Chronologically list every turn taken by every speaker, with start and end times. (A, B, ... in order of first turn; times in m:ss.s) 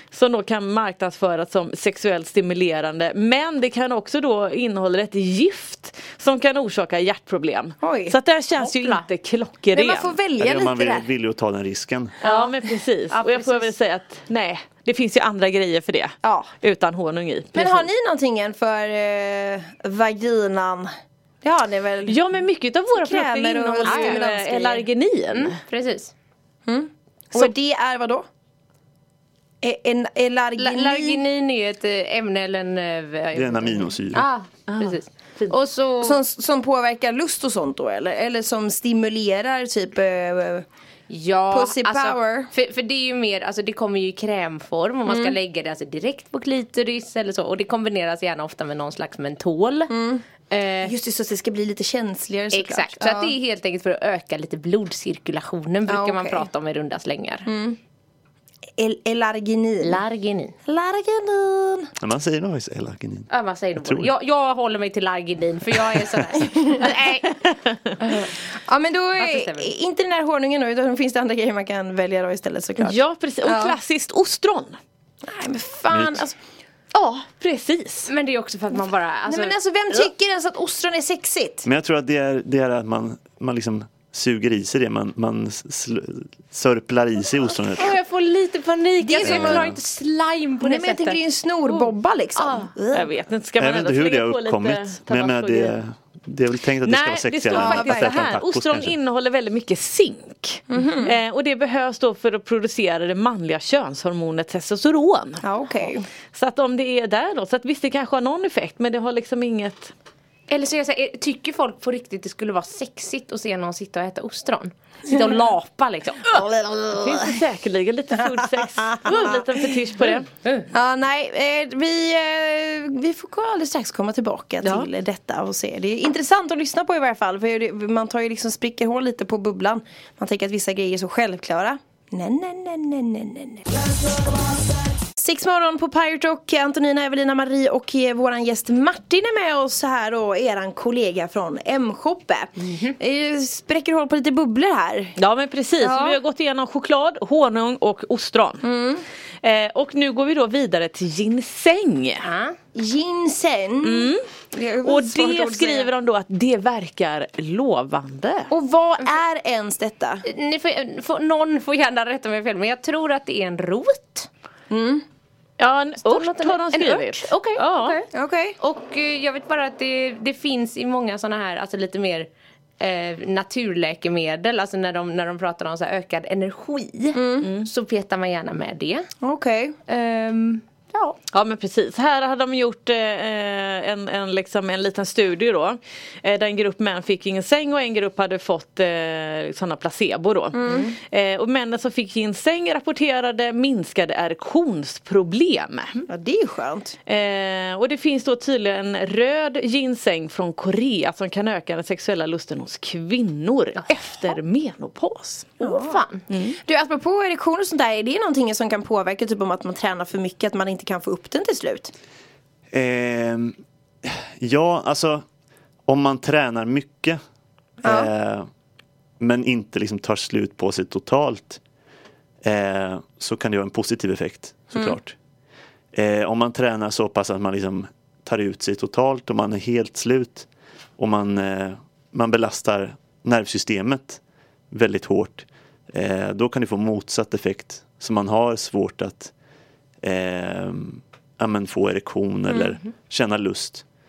0:00.1-0:10.1 A
0:07.8-0:08.2 B
0:08.6-0:09.0 C
0:09.7-0:11.1 B
0:10.4-0:12.2 D
0:12.2-0:12.5 C
0:12.2-0:17.9 A
0:13.1-0:13.7 C
0:16.2-0:16.5 B
0:17.5-0:20.9 B
0:21.4-0:22.2 B
0:22.1-0:25.6 A
0:22.9-0:24.8 B
0:23.8-0:24.3 C
0:25.3-0:26.1 C
0:26.7-0:28.3 B
0:29.6-0:31.2 B
0:30.6-0:36.2 C
0:33.3-0:34.3 D
0:34.7-0:35.5 A
0:36.0-0:40.7 B
0:41.1-0:49.9 C
0:41.5-0:42.5 B
0:45.1-0:45.4 B
0:49.9-0:50.2 B
0:50.5-0:50.9 C
0:50.8-0:53.4 B
0:52.5-0:57.5 C
0:55.9-0:56.5 B
0:57.5-0:57.8 B
0:58.8-1:00.0 B
0:59.8-1:00.6 C
1:00.7-1:01.9 B
1:02.0-1:04.1 D
1:03.3-1:08.4 C
1:06.4-1:07.0 B
1:08.2-1:13.8 B
1:09.2-1:09.7 C
1:12.8-1:14.8 A
1:15.2-1:16.4 B
1:15.9-1:16.2 D
1:16.9-1:18.1 A
1:18.1-1:19.5 C
1:19.3-1:21.7 B
1:21.6-1:28.0 D
1:27.6-1:31.2 C
1:29.0-1:29.7 B
1:29.2-1:29.8 D
1:30.6-1:33.1 B
1:32.4-1:32.7 C
1:32.9-1:35.8 A
1:33.6-1:38.9 D
1:36.8-1:45.4 A
1:37.5-1:38.3 B
1:40.7-1:41.1 B
1:45.4-1:46.1 B
1:46.3-1:49.9 A
1:50.5-1:56.4 C
1:56.3-1:57.4 B
1:56.9-2:00.3 A
1:58.3-1:59.4 B
2:00.7-2:13.7 B
2:04.6-2:04.9 A
2:15.2-2:25.2 B
2:22.6-2:23.0 C
2:25.2-2:28.7 A
2:25.8-2:26.2 B
2:28.6-2:29.0 B
2:29.4-2:32.3 A
2:32.2-2:32.6 C
2:32.7-2:35.9 B
2:33.8-2:34.2 A
2:34.8-2:38.5 A
2:38.5-2:40.2 B
2:40.3-2:44.3 C
2:44.7-2:45.0 B
2:45.6-2:48.0 A
2:46.0-2:52.3 C
2:48.1-2:48.6 B
2:52.8-2:59.1 C
2:57.1-2:57.5 B
2:59.2-2:59.8 B
2:59.9-3:01.2 C
3:01.3-3:16.0 A
3:10.6-3:10.9 B
3:16.1-3:17.0 B
3:17.1-3:25.6 A
3:25.6-3:26.1 B
3:25.6-3:26.2 C
3:26.3-3:26.6 A
3:26.6-3:31.9 B
3:32.7-3:35.2 D
3:35.9-3:37.2 D
3:37.8-3:38.1 B
3:37.8-3:38.5 D
3:39.2-3:41.6 D
3:42.4-3:45.2 D
3:45.9-3:50.5 D
3:51.0-3:54.2 D
3:54.7-3:59.3 D
4:00.0-4:03.8 D